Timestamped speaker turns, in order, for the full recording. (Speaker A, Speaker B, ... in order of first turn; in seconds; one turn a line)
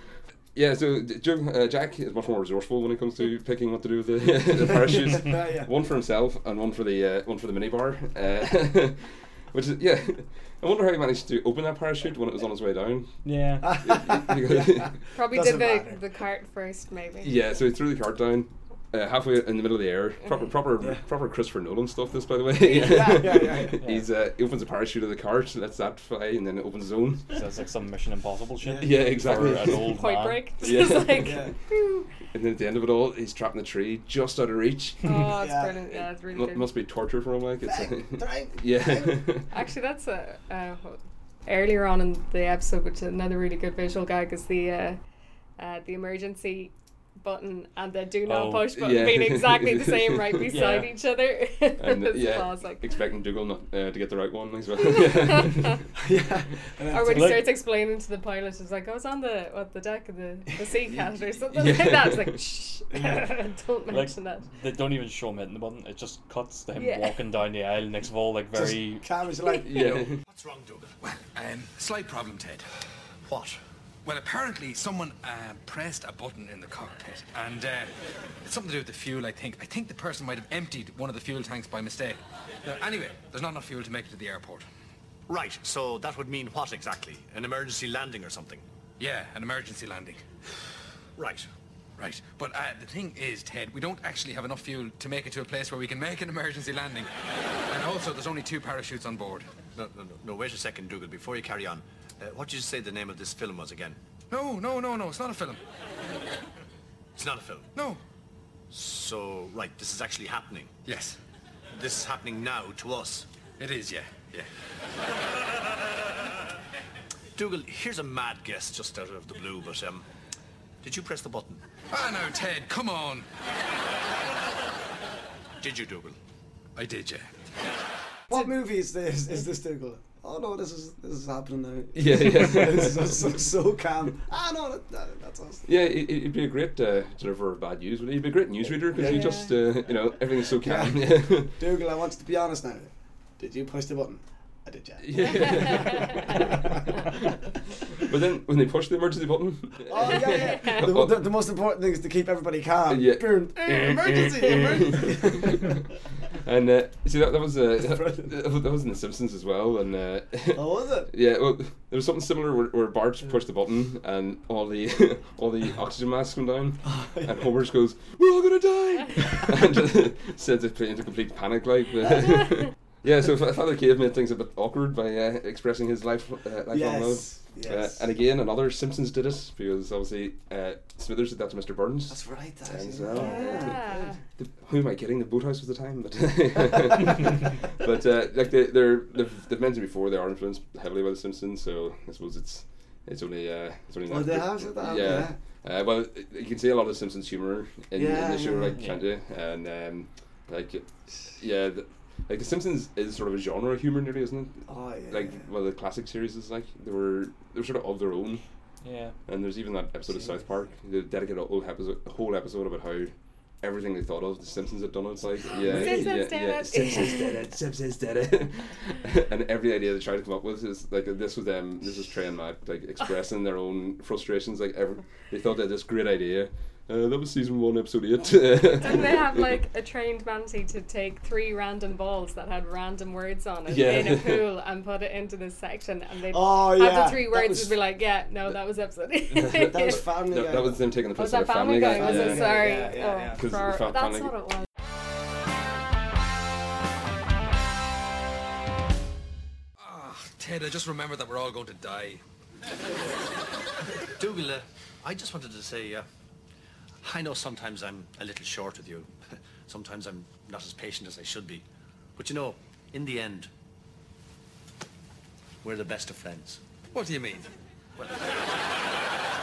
Speaker A: 0.5-13.2
Speaker B: 4.6-5.7
Speaker C: 13.2-13.7
Speaker B: 13.6-16.0
Speaker A: 13.8-15.0
Speaker D: 15.1-17.4
Speaker A: 17.2-27.3
Speaker D: 22.6-23.1
Speaker B: 22.6-23.8
Speaker C: 23.8-24.1
Speaker C: 27.3-30.4
Speaker B: 28.6-29.8
Speaker A: 28.8-29.9
Speaker D: 29.9-32.1
Speaker A: 30.6-31.5
Speaker B: 31.2-31.5
Speaker A: 32.3-35.2
Speaker D: 35.0-36.7
Speaker B: 35.3-35.9
Speaker A: 36.3-39.5
Speaker B: 37.6-39.2
Speaker D: 39.5-45.0
Speaker D: 45.6-52.9
Speaker C: 48.3-48.7
Speaker A: 48.7-50.6
Speaker C: 50.5-50.9
Speaker A: 51.8-55.8
Speaker D: 54.8-55.8
Speaker B: 56.0-57.4
Speaker D: 56.9-64.5
Speaker C: 57.1-57.4
Speaker A: 61.5-62.4
Speaker B: 62.9-63.2
Speaker C: 63.9-69.0
Speaker D: 66.7-67.2
Speaker B: 68.5-70.0
Speaker D: 69.5-69.8
Speaker A: 69.6-70.2
Speaker E: 70.2-70.9
Speaker F: 71.0-72.6
Speaker E: 73.2-73.6
Speaker F: 74.0-77.9
Speaker F: 78.4-84.7
Speaker E: 85.3-88.6
Speaker F: 89.0-90.2
Speaker E: 91.2-91.5
Speaker F: 92.0-97.1
Speaker F: 97.7-99.5
Speaker E: 99.7-104.0
Speaker F: 104.3-105.6
Speaker E: 107.2-107.7
Speaker F: 107.7-108.0
Speaker E: 108.7-110.8
Speaker F: 110.8-111.2
Speaker E: 111.7-113.3
Speaker F: 113.6-114.1
Speaker E: 117.3-120.0
Speaker E: 120.8-121.6
Speaker F: 121.9-123.2
Speaker E: 125.6-126.2
Speaker F: 126.8-127.3
Speaker B: 128.3-135.7
Speaker A: 131.9-133.3
Speaker A: 135.7-141.5
Speaker B: 138.8-139.4
Speaker D: 138.9-139.6
Speaker B: 140.6-147.2
Speaker A: 145.0-146.6
Speaker D: 145.8-146.4
Speaker A: 147.9-151.2
Speaker B: 149.8-155.8
Speaker D: 150.0-150.9
Speaker A: 152.9-155.8
Speaker A: 156.4-183.9
Speaker B: 157.8-158.3
Speaker B: 160.5-161.1
Speaker B: 166.8-167.5
Speaker B: 176.7-178.0
Speaker B: 182.1-184.1
Speaker D: 183.2-184.2
Speaker A: 184.4-200.8
Speaker B: 194.1-195.4
Speaker B: 197.9-198.8
Speaker A: 201.3-208.4
Speaker B: 204.7-205.4
Speaker C: 208.8-209.2
Speaker A: 209.3-229.6
Speaker B: 215.4-216.2
Speaker D: 215.6-217.4
Speaker D: 228.8-240.0
Speaker A: 233.7-234.4
Speaker B: 236.3-237.8
Speaker A: 239.3-242.7
Speaker B: 239.5-240.8
Speaker D: 241.2-244.4
Speaker B: 241.8-243.4
Speaker A: 243.4-244.3
Speaker F: 249.8-252.2
Speaker E: 254.2-256.1
Speaker E: 257.0-259.1
Speaker E: 259.7-261.6
Speaker E: 262.2-263.5
Speaker E: 265.6-266.6
Speaker F: 266.9-267.5
Speaker E: 268.0-268.5